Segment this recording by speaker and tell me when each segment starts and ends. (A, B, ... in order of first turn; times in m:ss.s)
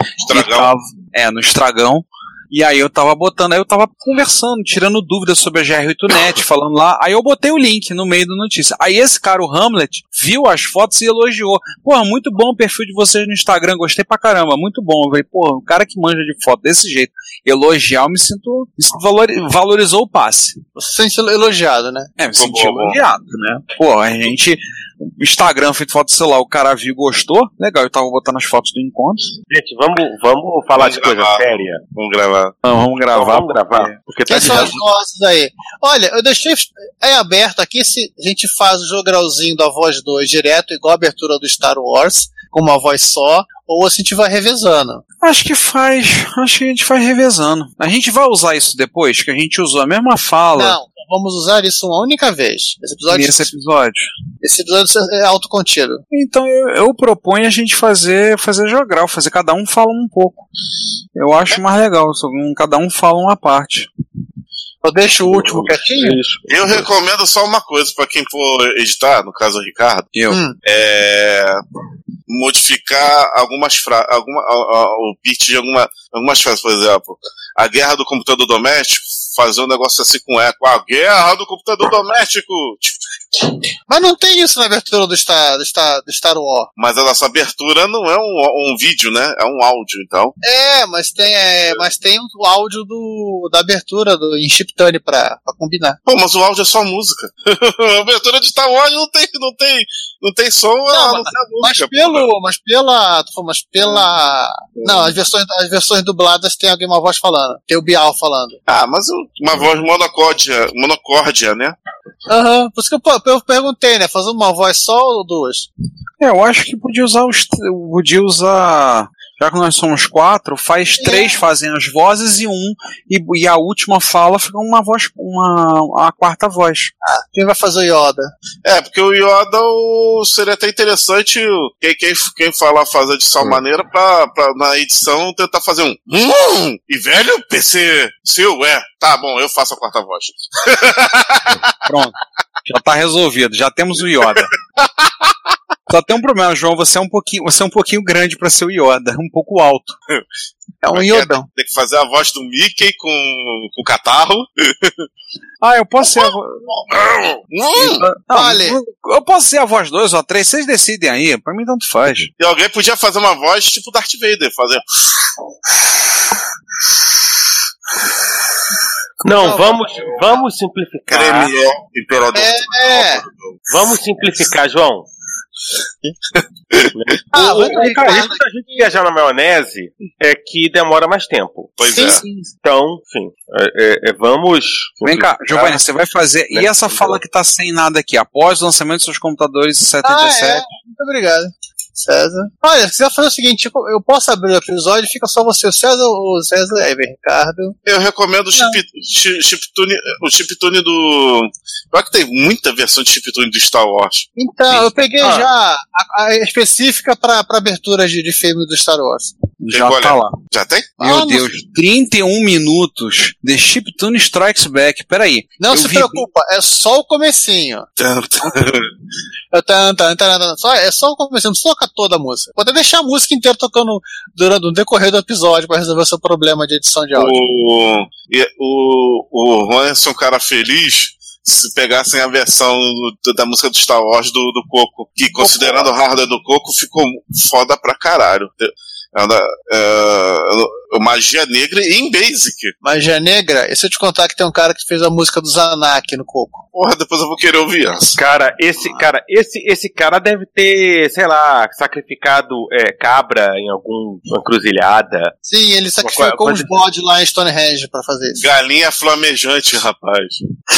0:00.2-0:00.7 A
0:00.3-0:20.6 B
0:20.8-0:22.1 C
0:22.2-0:29.3 B
0:22.4-0:23.0 A
0:29.5-0:31.8 D
0:30.8-0:32.5 A
0:32.6-0:34.8 B
0:33.1-0:34.8 D
0:34.3-0:45.0 C
0:45.2-0:50.8 B
0:50.6-0:53.5 C
0:53.1-0:54.1 B
0:54.4-0:56.0 C
0:56.1-1:00.4 B
1:01.2-1:03.9 B
1:04.8-1:06.2 C
1:05.2-1:06.9 D
1:06.5-1:10.1 A
1:10.1-1:10.4 B
1:10.3-1:10.6 C
1:10.6-1:11.6 A
1:12.3-1:23.0 A
1:23.9-1:26.7 C
1:26.8-1:30.3 A
1:30.4-1:36.0 C
1:36.1-1:42.3 A
1:40.9-1:48.6 C
1:44.8-1:45.1 A
1:48.7-1:51.8 A
1:52.3-1:55.7 C
1:56.2-2:06.9 B
2:01.0-2:01.5 C
2:07.0-2:08.3 C
2:08.6-2:21.7 A
2:21.8-2:24.5 B
2:25.9-2:30.0 B
2:30.8-2:31.5 C
2:30.9-2:34.9 A
2:35.6-2:42.3 B
2:37.5-2:38.1 A
2:38.3-2:38.8 C
2:42.4-2:44.8 A
2:49.2-2:51.5 D
2:49.4-2:49.8 C
2:51.1-2:53.6 A
2:52.3-2:53.2 C
2:53.7-2:55.1 D
2:57.0-3:01.8 D
2:57.3-2:58.4 C
3:01.8-3:02.2 A
3:01.8-3:02.4 C
3:02.6-3:05.8 D
3:05.0-3:10.6 B
3:06.5-3:07.2 D
3:10.0-3:17.8 C
3:17.9-3:24.3 A
3:24.4-3:29.3 C
3:25.2-3:25.5 D
3:29.6-3:30.4 B
3:29.7-3:30.9 A
3:31.0-3:31.5 C
3:31.0-3:36.3 B
3:35.6-3:37.9 C
3:38.0-3:38.9 A
3:39.5-3:47.4 C
3:47.2-4:02.7 A
3:55.4-3:55.9 C
4:02.8-4:06.6 C
4:06.7-4:08.2 A
4:08.2-4:15.3 D
4:15.4-4:18.4 C
4:16.0-4:16.8 D
4:18.4-4:20.4 A